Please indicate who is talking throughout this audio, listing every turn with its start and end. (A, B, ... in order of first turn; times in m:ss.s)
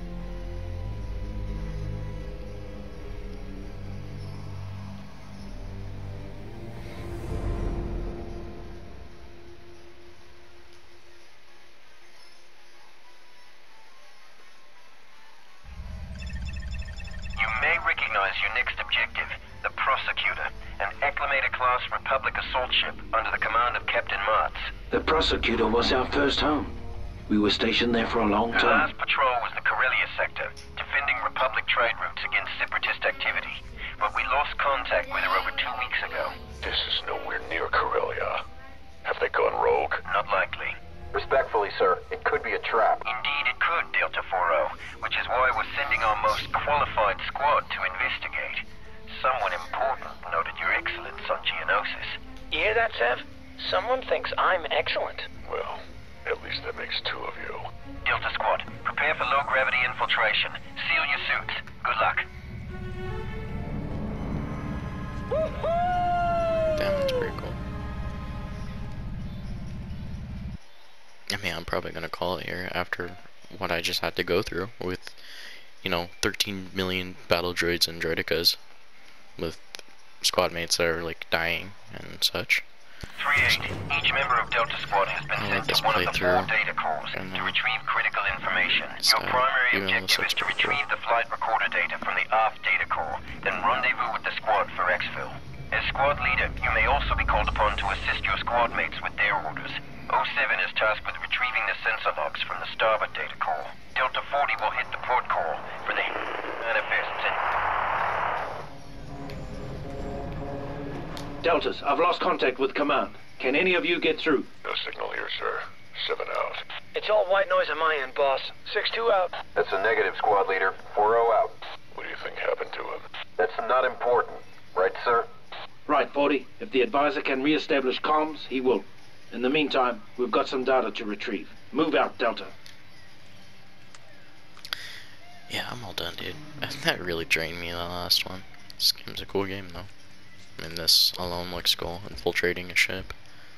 0:17.4-0:24.7 A
0:24.9-0:26.8 B
0:27.3-0:28.9 B
0:28.5-0:36.4 A
0:36.6-0:38.4 C
0:39.0-0:40.0 C
0:40.0-0:40.8 A
0:41.1-0:43.0 D
0:43.0-0:52.2 A
0:52.5-0:55.3 E
0:55.4-0:57.7 C
0:58.0-1:02.3 A
1:06.8-1:07.6 F
1:11.3-1:18.6 F
1:19.4-1:22.7 F
1:23.2-1:47.4 A
1:25.4-1:26.5 F
1:27.1-1:27.6 F
1:28.8-1:30.8 F
1:51.4-1:54.5 B
1:54.6-1:56.6 C
1:56.9-1:59.4 E
1:59.6-2:01.6 D
2:01.9-2:03.1 C
2:03.4-2:05.3 D
2:05.9-2:12.5 B
2:15.5-2:19.9 F
2:20.5-2:23.3 F